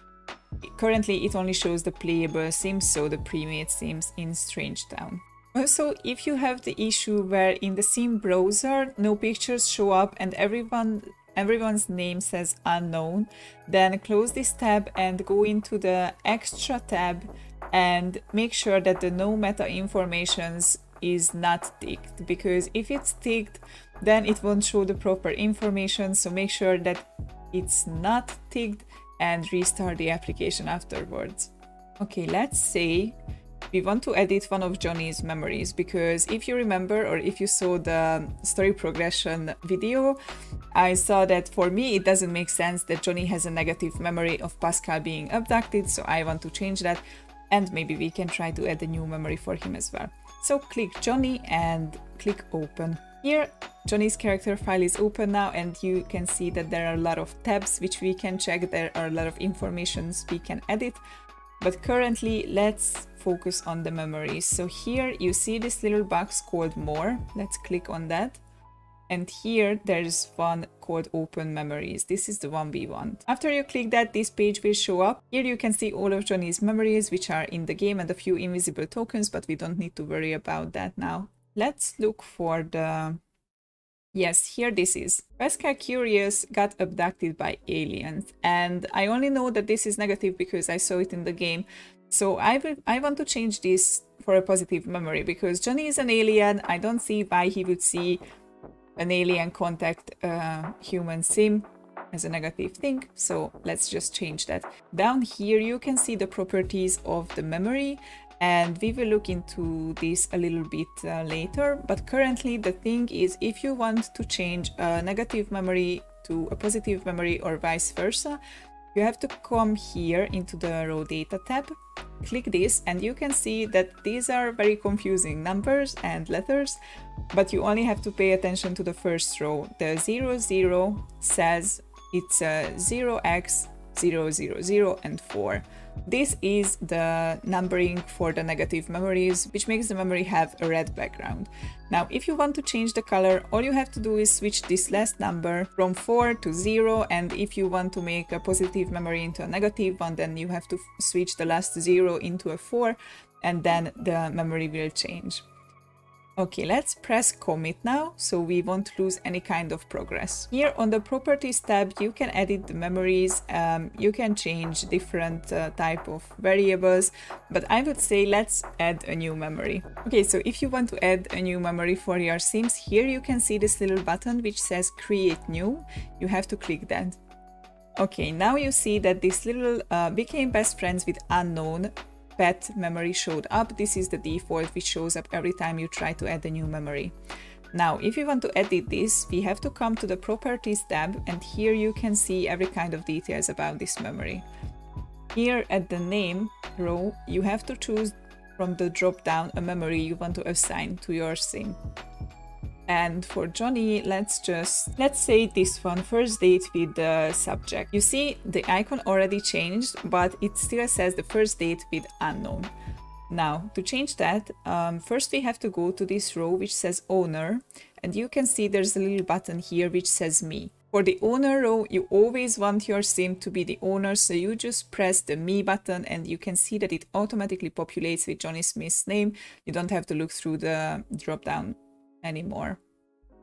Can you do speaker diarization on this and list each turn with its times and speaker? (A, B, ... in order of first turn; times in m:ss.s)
0:00.6-0:33.2 A
0:33.7-0:40.2 A
0:40.7-1:01.0 A
1:01.6-1:08.4 A
1:09.1-1:23.2 A
1:24.1-1:38.2 A
1:39.0-1:58.4 A
1:58.9-2:06.8 A
2:07.3-2:35.4 A
2:36.4-2:57.2 A
2:58.0-3:07.1 A
3:07.7-3:14.4 A
3:15.3-3:21.8 A
3:22.9-3:32.7 A
3:33.3-3:52.8 A